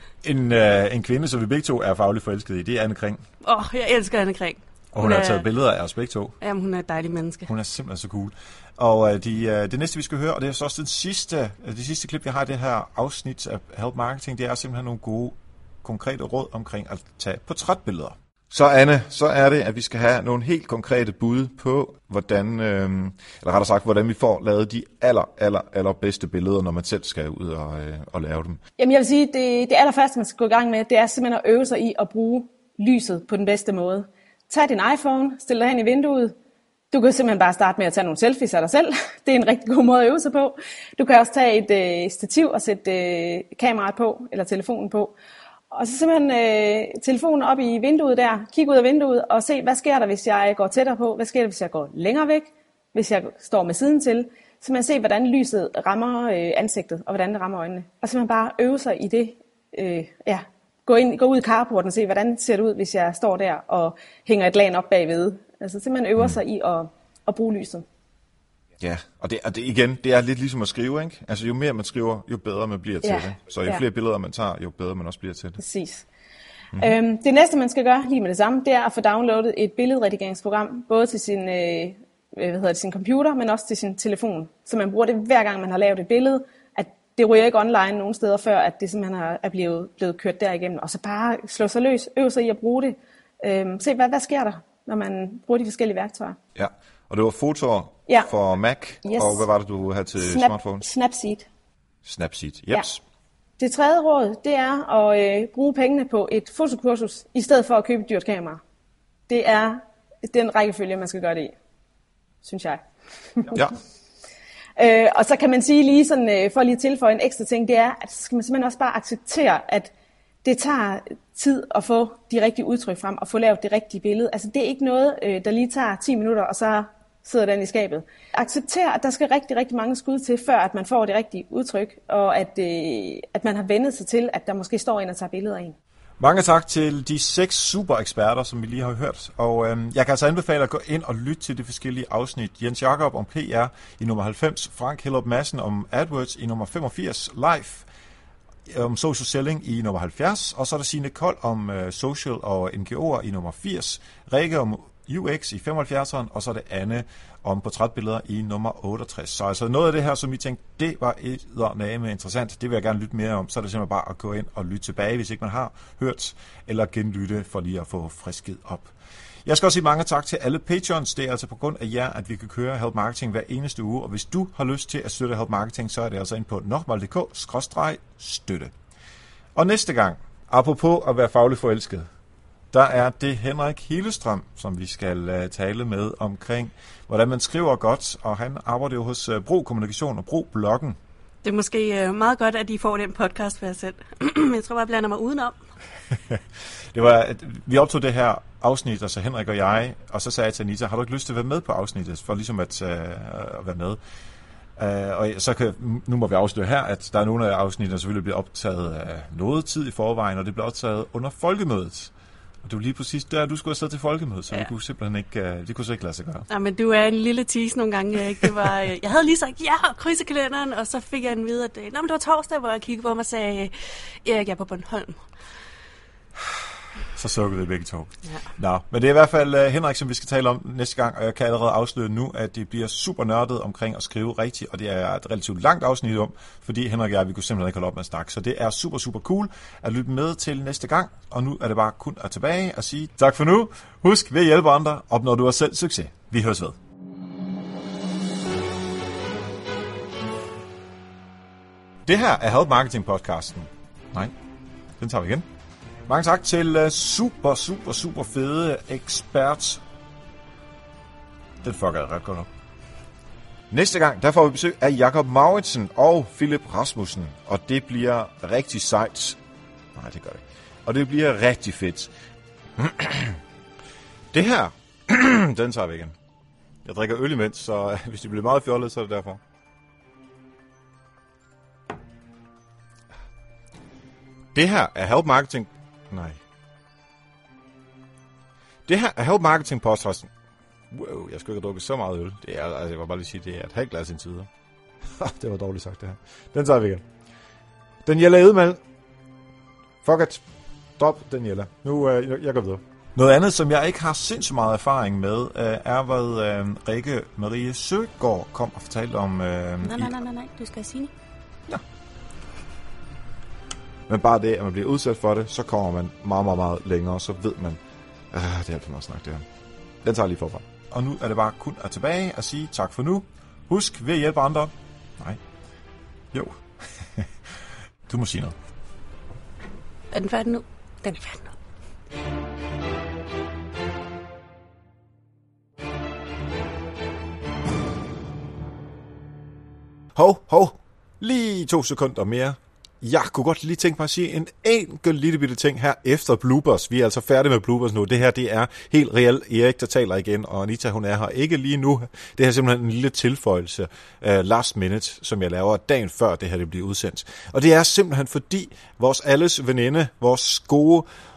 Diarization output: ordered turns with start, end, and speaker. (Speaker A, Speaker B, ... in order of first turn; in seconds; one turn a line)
Speaker A: 0.2-3.2
Speaker B: 3.4-5.5
Speaker A: 4.9-6.3
Speaker B: 6.4-7.5
Speaker A: 7.5-28.6
Speaker C: 28.8-36.3
Speaker C: 36.9-45.1
Speaker C: 45.7-67.8
Speaker A: 68.8-75.6
Speaker C: 73.0-73.8
Speaker C: 75.6-76.1
Speaker C: 76.7-96.4
Speaker A: 96.5-100.8
Speaker C: 99.0-99.5
Speaker C: 100.1-101.5
Speaker A: 102.0-103.0
Speaker C: 103.6-108.6
Speaker C: 109.3-111.5
Speaker C: 112.4-112.8
Speaker C: 113.3-113.7
Speaker C: 114.8-119.9
Speaker C: 120.4-135.8
Speaker A: 136.2-147.8
Speaker A: 148.7-168.9
Speaker A: 169.4-178.7
Speaker A: 179.5-182.1
Speaker A: 182.7-191.0
Speaker B: 191.4-195.6
Speaker A: 196.9-204.0
Speaker A: 204.8-212.1
Speaker A: 212.6-216.4
Speaker B: 216.5-225.3
Speaker A: 227.1-246.8
Speaker A: 252.1-254.3
Speaker A: 255.0-255.4
Speaker A: 256.1-259.8
Speaker A: 261.6-262.5
Speaker A: 263.7-269.4
Speaker A: 269.9-272.1
Speaker A: 272.8-273.4
Speaker A: 274.3-276.1
Speaker A: 276.8-279.4
Speaker A: 284.5-286.4
Speaker A: 288.9-290.3
Speaker A: 290.9-294.5
Speaker A: 295.2-297.0
Speaker A: 298.0-298.8
Speaker A: 300.0-300.4
Speaker A: 301.0-310.1
Speaker B: 309.9-311.1
Speaker A: 314.1-317.8
Speaker A: 318.3-319.4
Speaker A: 320.0-325.4
Speaker A: 326.3-328.5
Speaker B: 330.1-331.5
Speaker A: 340.1-361.1